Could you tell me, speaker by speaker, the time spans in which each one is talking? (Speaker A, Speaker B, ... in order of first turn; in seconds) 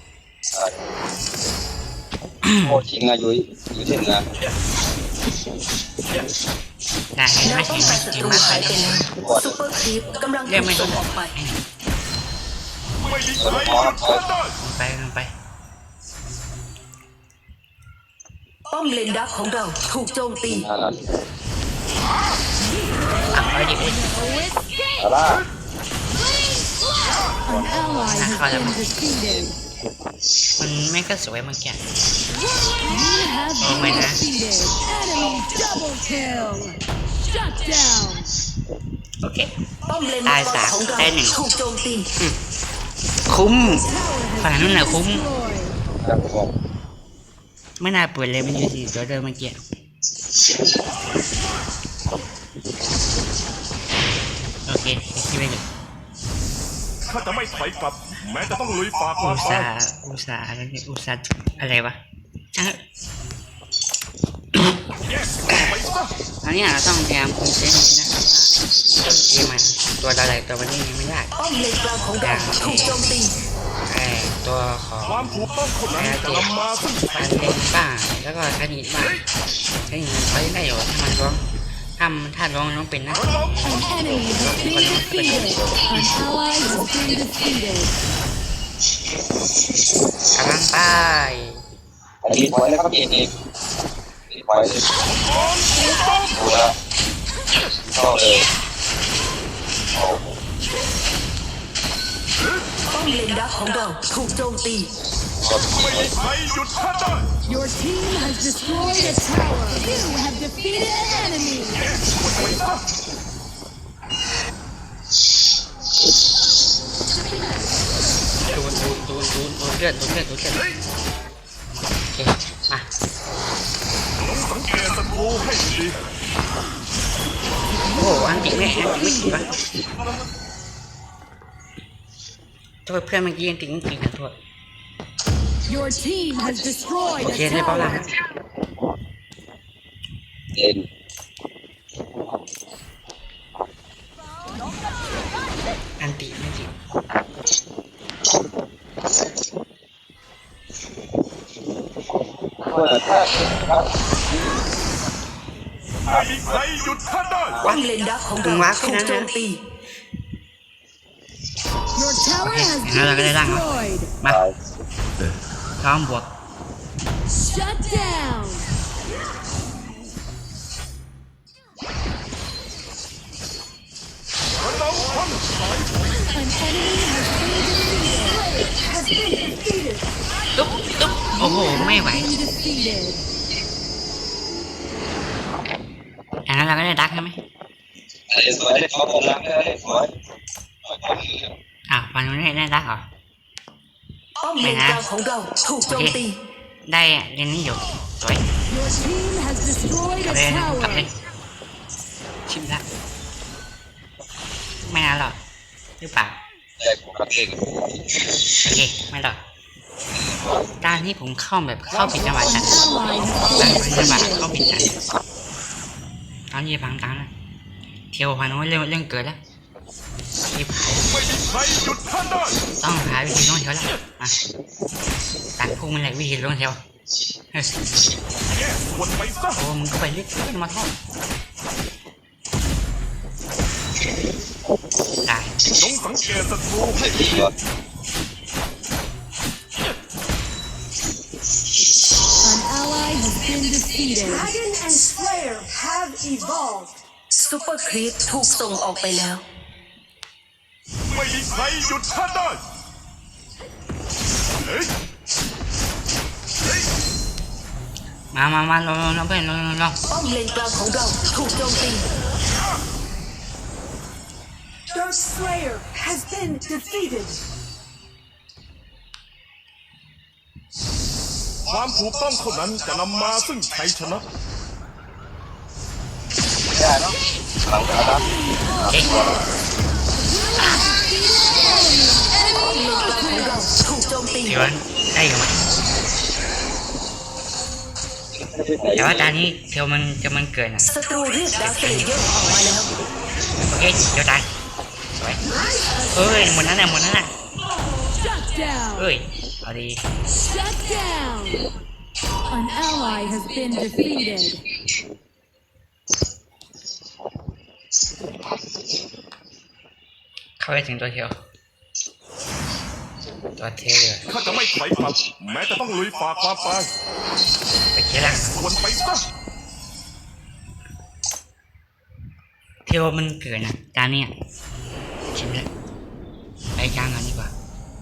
Speaker A: 0.5-0.9, 2.6-4.3, 9.1-9.7, 13.4-14.3, 20.5-21.1, 25.0-25.5, 46.0-46.5, 92.2-93.3, 94.3-95.1, 96.3-96.7, 97.8-98.5, 100.0-100.3, 105.3-106.1, 140.5-140.9, 152.6-154.0, 156.1-156.6, 164.2-164.6, 188.3-190.1, 190.8-191.5, 206.8-208.2, 210.2-210.6, 236.9-237.5, 276.7-279.4, 288.3-289.4
Speaker B: 2.4-2.8, 7.2-9.1, 10.4-11.6, 14.6-15.3, 23.3-24.0, 27.6-28.8, 30.6-31.8, 33.6-34.2, 39.2-39.5, 40.2-41.4, 43.3-45.3, 47.8-49.6, 54.7-55.6, 59.2-62.0, 62.5-62.8, 64.5-64.8, 65.5-65.8, 66.3-71.3, 72.2-73.0, 73.9-76.5, 77.1-79.2, 79.9-81.5, 82.0-83.5, 84.4-85.7, 90.3-91.6, 118.5-120.7, 122.0-122.9, 127.9-129.5, 132.8-134.4, 137.2-138.1, 146.0-146.7, 157.6-159.3, 162.4-164.4, 165.8-166.3, 180.6-182.3, 186.5-187.4, 191.9-193.1, 194.6-195.1, 195.9-196.2, 196.9-198.5, 200.2-201.1, 202.5-202.8, 204.8-205.4, 206.0-206.4, 208.6-209.4, 210.8-215.0, 216.5-217.3, 218.1-219.4, 220.5-221.1, 222.8-224.4, 225.6-226.8, 229.5-230.9, 235.2-235.6, 258.3-260.0, 278.9-279.3, 280.6-280.9, 284.4-285.6, 289.0-290.9, 291.6-292.2, 293.6-294.5, 295.2-295.4, 296.1-297.3, 298.9-300.0, 310.6-311.4, 313.6-314.4, 317.9-318.6, 322.9-324.3, 325.3-325.7, 326.8-327.5
Speaker C: 7.4-11.3, 18.7-20.7, 39.9-42.1, 71.4-73.3, 102.9-104.9, 157.6-159.6, 194.4-196.4, 244.4-249.4, 260.1-262.1, 264.9-267.3, 282.6-284.7, 290.9-292.9
Speaker D: 13.0-14.5, 57.0-59.7, 65.1-66.1, 75.0-77.6, 95.1-96.4, 105.9-107.3, 111.9-112.8, 124.2-126.0, 156.1-157.6, 174.6-175.9, 212.1-212.4, 213.1-213.5, 221.1-222.6, 228.5-229.6, 235.7-237.5, 251.1-252.6, 271.7-274.2, 314.3-316.9, 318.3-319.2
Speaker E: 24.0-24.5, 27.4-29.6, 32.8-38.3, 43.6-45.8, 83.6-87.9, 107.5-111.9, 135.7-138.0, 161.9-164.1, 167.3-168.7, 176.3-179.5, 181.4-183.2, 198.7-201.1, 212.4-214.5, 242.4-244.5, 280.6-282.6, 298.1-299.1, 300.3-301.6, 302.5-304.6